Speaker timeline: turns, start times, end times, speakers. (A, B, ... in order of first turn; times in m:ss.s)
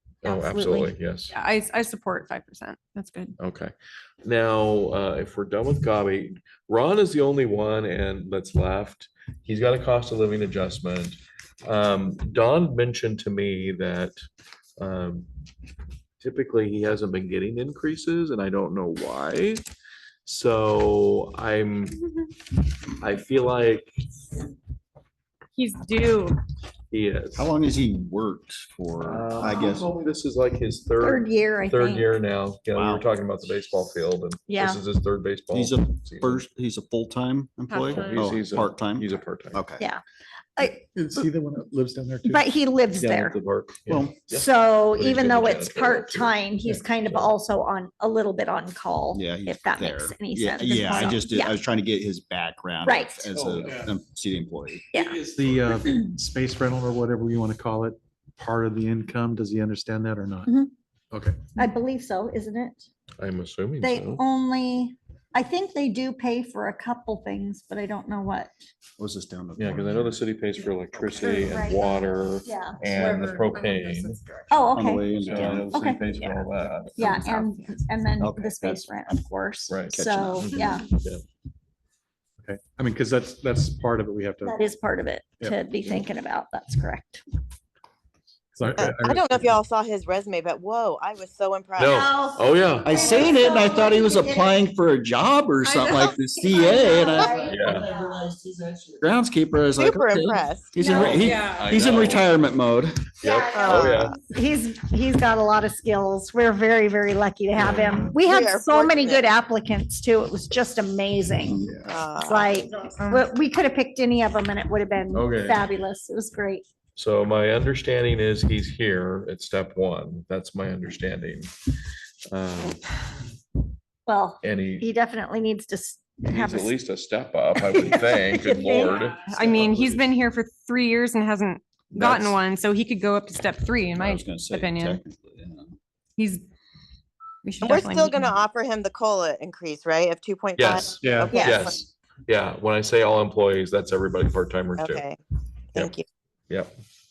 0:00.2-0:01.3 A
0:00.2-0:00.9 B
0:01.3-0:03.4 C
0:03.4-0:14.1 A
0:14.8-0:15.3 A
0:16.2-0:19.6 A
0:20.2-0:22.0 A
0:23.0-0:23.9 A
0:25.5-0:26.4 C
0:26.9-0:27.5 A
0:27.3-0:29.9 D
0:29.0-0:36.4 A
0:31.0-0:32.2 B
0:32.7-0:33.1 D
0:34.5-0:34.8 B
0:35.5-0:39.9 D
0:37.7-0:38.4 C
0:37.9-0:39.6 A
0:40.6-0:40.8 B
0:40.9-0:42.4 E
0:42.2-0:43.4 B
0:43.0-0:46.4 A
0:43.9-0:44.1 D
0:44.3-0:51.5 B
0:47.0-0:47.3 A
0:49.1-0:54.9 D
0:52.8-0:53.3 B
0:53.3-0:53.9 E
0:54.9-0:55.2 B
0:54.9-1:00.5 E
1:00.4-1:00.7 B
1:01.1-1:01.6 E
1:01.6-1:02.9 B
1:03.2-1:04.2 A
1:03.8-1:08.5 B
1:09.0-1:10.2 D
1:09.6-1:14.2 A
1:11.1-1:13.0 B
1:11.1-1:11.4 C
1:12.9-1:14.7 C
1:14.5-1:16.2 B
1:14.7-1:15.6 D
1:15.1-1:17.5 A
1:17.0-1:20.8 B
1:17.0-1:17.8 C
1:18.2-1:19.2 D
1:19.7-1:21.2 A
1:19.9-1:20.8 D
1:22.4-1:24.6 E
1:24.4-1:27.2 B
1:28.5-1:29.6 E
1:28.7-1:32.0 F
1:31.8-1:33.2 A
1:31.8-1:34.6 B
1:32.8-1:38.0 D
1:35.6-1:36.4 C
1:36.4-1:38.3 B
1:37.4-1:37.9 A
1:38.8-1:43.1 D
1:39.8-1:40.9 F
1:40.8-1:41.7 C
1:40.9-1:42.3 A
1:43.2-1:56.6 B
1:43.2-1:44.2 A
1:43.5-1:44.2 F
1:47.6-1:48.1 A
1:48.0-1:49.3 F
1:51.4-1:51.9 D
1:51.8-1:52.6 F
1:52.8-1:53.2 C
1:55.1-1:55.6 A
1:57.0-2:01.5 A
2:02.3-2:02.8 A
2:04.0-2:06.8 B
2:04.4-2:04.9 A
2:06.2-2:10.0 A
2:07.5-2:09.1 B
2:08.6-2:15.0 C
2:11.9-2:12.4 A
2:13.9-2:15.8 D
2:16.2-2:16.4 C
2:17.4-2:18.4 C
2:17.6-2:21.8 F
2:20.6-2:25.0 A
2:21.0-2:21.7 E
2:21.3-2:21.7 B
2:24.8-2:25.2 F
2:25.7-2:26.0 F